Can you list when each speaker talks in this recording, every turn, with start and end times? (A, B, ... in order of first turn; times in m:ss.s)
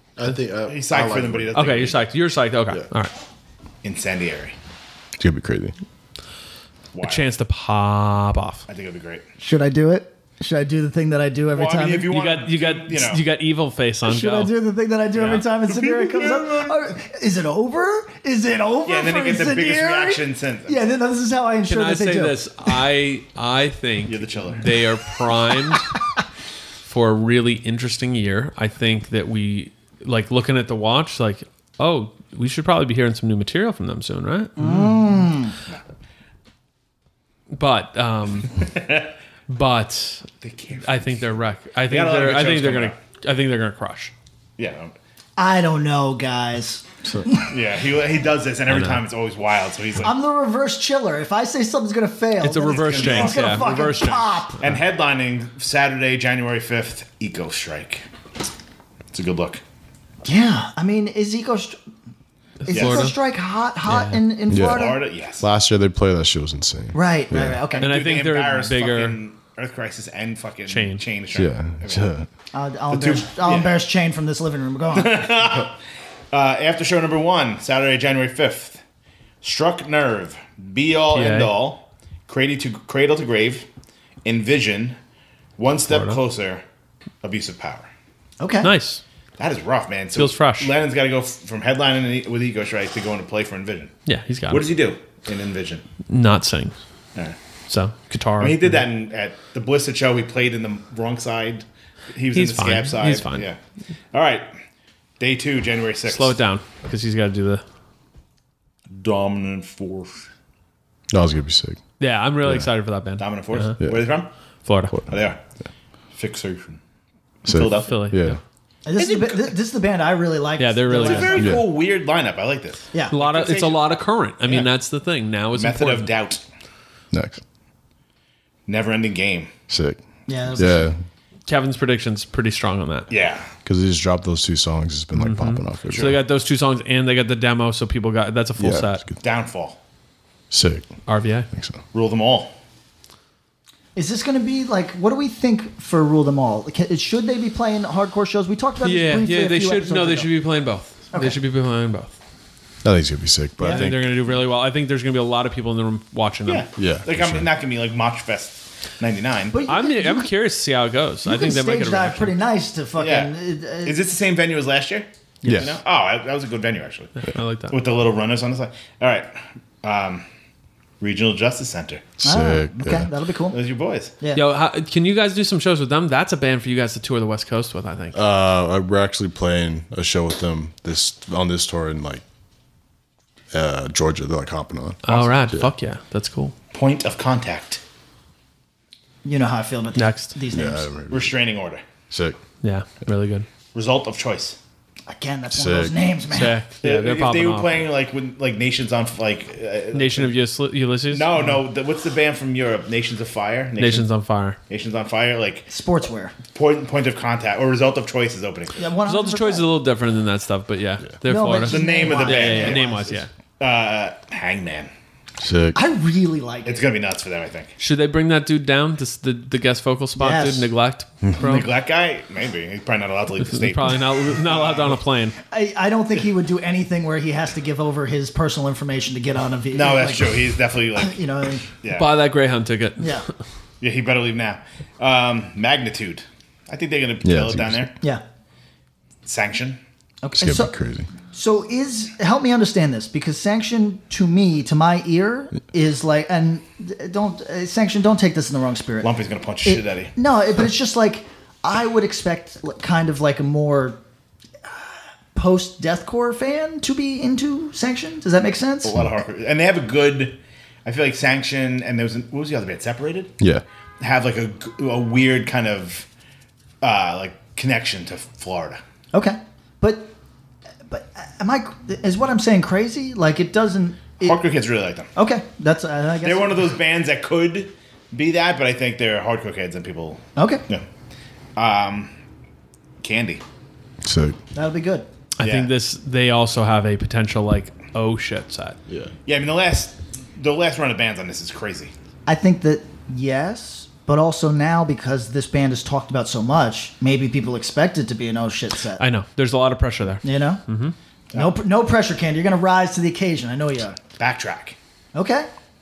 0:00.2-0:01.5 A
0:00.7-0:02.0 B
0:01.5-0:03.1 C
0:03.8-0:04.6 B
0:05.2-0:05.8 A
0:06.9-0:07.2 B
0:07.0-0:08.7 C
0:08.7-0:09.2 B
0:09.4-0:12.1 D
0:11.6-0:13.2 B
0:12.1-0:14.5 C
0:14.1-0:22.4 D
0:15.2-0:16.8 B
0:18.8-0:20.8 B
0:21.7-0:25.9 C
0:24.1-0:24.7 B
0:26.9-0:34.7 C
0:34.6-0:35.6 D
0:37.5-0:38.6 C
0:38.6-0:39.1 B
0:39.5-0:40.3 C
0:40.4-0:41.4 B
0:40.8-0:44.1 C
0:41.9-0:43.0 B
0:44.6-0:44.9 B
0:45.4-0:47.5 D
0:47.5-0:50.1 B
0:48.7-0:49.0 C
0:50.0-0:54.6 D
0:52.4-0:54.5 C
0:52.7-0:53.7 B
0:54.6-0:58.1 B
0:59.1-0:59.6 B
1:00.2-1:01.8 D
1:02.6-1:03.2 C
1:02.7-1:05.0 D
1:02.7-1:03.0 B
1:03.9-1:04.2 C
1:04.5-1:07.6 A
1:04.6-1:05.4 B
1:06.9-1:07.9 D
1:07.7-1:12.1 B
1:07.8-1:09.2 C
1:10.7-1:11.0 C
1:11.3-1:12.3 A
1:12.5-1:15.4 D
1:12.9-1:13.8 B
1:14.9-1:15.8 B
1:16.3-1:18.8 B
1:19.4-1:23.7 B
1:21.1-1:21.5 C
1:24.2-1:25.0 B
1:25.6-1:26.6 B
1:25.9-1:26.2 C
1:27.2-1:27.9 B
1:28.4-1:28.7 D
1:28.6-1:29.0 C
1:29.4-1:33.9 B
1:30.2-1:30.7 C
1:34.1-1:34.7 C
1:34.5-1:35.8 B
1:36.1-1:36.8 C
1:37.7-1:38.8 C
1:38.4-1:43.6 B
1:42.3-1:43.5 C
1:44.1-1:44.5 B
1:45.2-1:46.4 B
1:46.1-1:47.6 C
1:48.9-1:50.2 B
1:51.1-1:51.8 A
1:52.0-1:53.8 C
1:52.4-1:52.7 A
1:53.2-1:54.3 B
1:54.6-1:55.0 C
1:55.1-1:55.4 B
1:56.2-1:56.8 B
1:57.4-1:58.0 B
1:57.5-1:58.4 A
1:57.8-1:58.4 C
1:58.8-2:01.6 D
1:59.0-1:59.6 B
2:00.6-2:01.4 C
2:00.9-2:03.8 B
2:03.1-2:06.1 C
2:05.5-2:06.4 B
2:07.1-2:07.4 A
2:08.7-2:09.5 B
2:09.7-2:10.0 A
2:10.3-2:10.9 D
2:10.5-2:11.0 A
2:11.5-2:13.1 C
2:13.1-2:13.5 B
2:13.6-2:16.2 A
2:15.2-2:19.0 C
2:15.9-2:16.2 B
2:18.6-2:19.2 A
2:19.2-2:19.8 B
2:20.5-2:21.0 A
2:21.1-2:21.5 C
2:21.5-2:21.8 A
2:21.9-2:22.5 B
2:24.0-2:30.3 D
2:28.8-2:32.2 C
2:31.1-2:31.4 D
2:32.8-2:34.4 A
2:33.6-2:33.9 D
2:33.6-2:36.6 C
2:36.5-2:39.6 B
2:36.8-2:37.5 A
2:39.5-2:40.3 D
2:39.7-2:42.4 C
2:41.2-2:44.0 D
2:43.0-2:47.2 B
2:45.4-2:45.8 A
2:47.2-2:47.8 C
2:47.7-2:50.2 B
2:51.0-2:52.1 B
2:52.2-2:53.1 A
2:52.2-2:53.6 D
2:53.5-2:54.1 B
2:54.3-2:58.2 C
2:58.1-3:02.2 A
3:03.5-3:05.7 A
3:05.0-3:06.6 C
3:06.7-3:07.8 B
3:09.2-3:10.9 D
3:10.0-3:10.3 C
3:10.5-3:11.4 A
3:11.1-3:11.8 B
3:12.1-3:12.4 A
3:12.6-3:13.5 C
3:13.7-3:14.6 B
3:15.1-3:16.6 D
3:15.5-3:16.0 A
3:16.3-3:17.9 C
3:16.8-3:20.3 B
3:19.9-3:21.4 C
3:21.1-3:24.1 B
3:23.8-3:24.6 C
3:24.7-3:25.7 B
3:25.7-3:26.4 D
3:26.5-3:28.8 B
3:28.8-3:29.7 D
3:29.0-3:33.3 C
3:31.2-3:33.2 D
3:31.7-3:34.9 B
3:35.4-3:35.8 A
3:35.7-3:36.8 D
3:36.6-3:37.7 B
3:37.8-3:41.7 C
3:40.2-3:40.7 D
3:41.4-3:45.0 B
3:43.4-3:45.4 C
3:45.5-3:51.7 D
3:49.7-3:51.2 B
3:51.8-3:52.1 B
3:51.9-3:53.1 C
3:53.0-3:53.3 D
3:53.8-3:57.9 B
3:57.2-3:57.9 A
3:59.3-3:59.8 B
4:00.2-4:00.8 D
4:00.4-4:01.1 A
4:01.3-4:09.1 D
4:09.0-4:10.1 B
4:09.6-4:14.0 D
4:14.7-4:19.1 D
4:18.8-4:23.3 B
4:24.0-4:26.1 B
4:26.8-4:28.8 B
4:29.1-4:30.1 D
4:30.9-4:34.4 D
4:34.2-4:35.1 B
4:35.2-4:36.7 D
4:36.2-4:40.8 B
4:40.4-4:40.6 D
4:41.6-4:42.1 B
4:43.0-4:43.4 B
4:44.0-4:44.4 A
4:44.5-4:45.1 D
4:45.4-4:48.8 C
4:45.4-4:45.7 B
4:48.9-4:49.1 A
4:49.3-4:51.9 B
4:52.3-4:59.0 D
4:59.0-5:01.0 C
5:00.2-5:00.6 D
5:01.4-5:04.0 D
5:04.2-5:04.8 B
5:05.1-5:05.5 D